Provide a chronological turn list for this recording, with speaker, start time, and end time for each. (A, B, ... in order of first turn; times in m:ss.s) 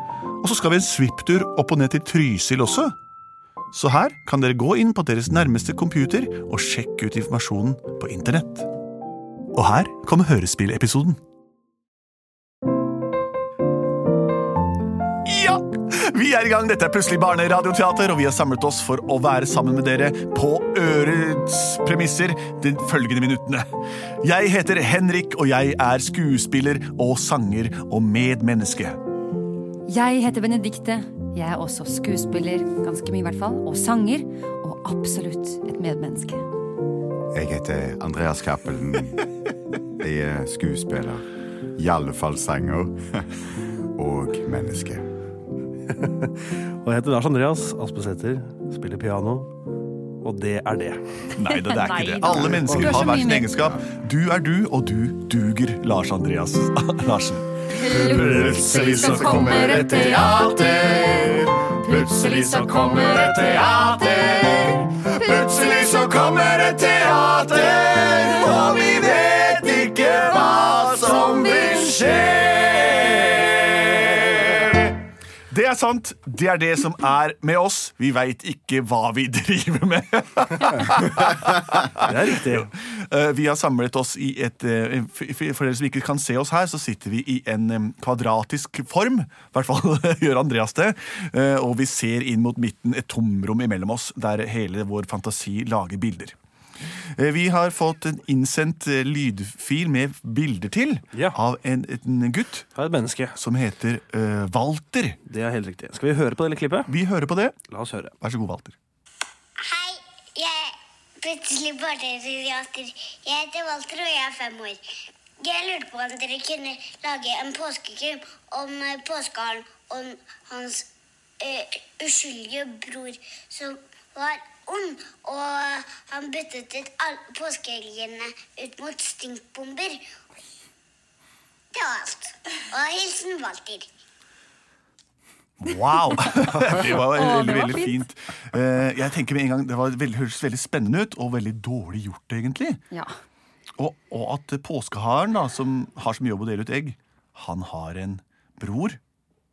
0:00.4-0:03.0 A
0:03.7-0:08.7 A
0:09.5-0:11.2 A
0:15.2-0:23.7 A
0:24.2-0:29.0 A
0:29.9-0:36.4 B
0:37.3-0:39.2 C
0:40.0-0:41.2 C
0:41.8-0:43.4 C
0:44.0-0:45.1 C
0:45.9-0:49.5 D
0:50.2-0:51.0 D
0:51.4-1:15.0 A
0:51.4-0:53.6 B
0:52.3-0:53.8 C
0:57.8-1:04.6 B
0:58.3-0:58.8 C
1:05.1-1:05.6 B
1:11.2-1:12.1 B
1:15.5-1:36.4 A
1:22.0-1:22.7 D
1:37.2-1:42.7 A
1:42.8-1:43.4 D
1:43.4-1:45.2 A
1:45.3-1:46.9 D
1:46.9-1:47.6 A
1:47.7-1:48.1 D
1:48.2-1:48.8 A
1:49.6-1:54.8 E
1:55.4-2:00.9 E
2:01.4-2:10.0 E
2:11.7-2:13.9 E
2:15.6-2:22.8 A
2:16.1-2:18.0 B
2:23.8-2:29.0 A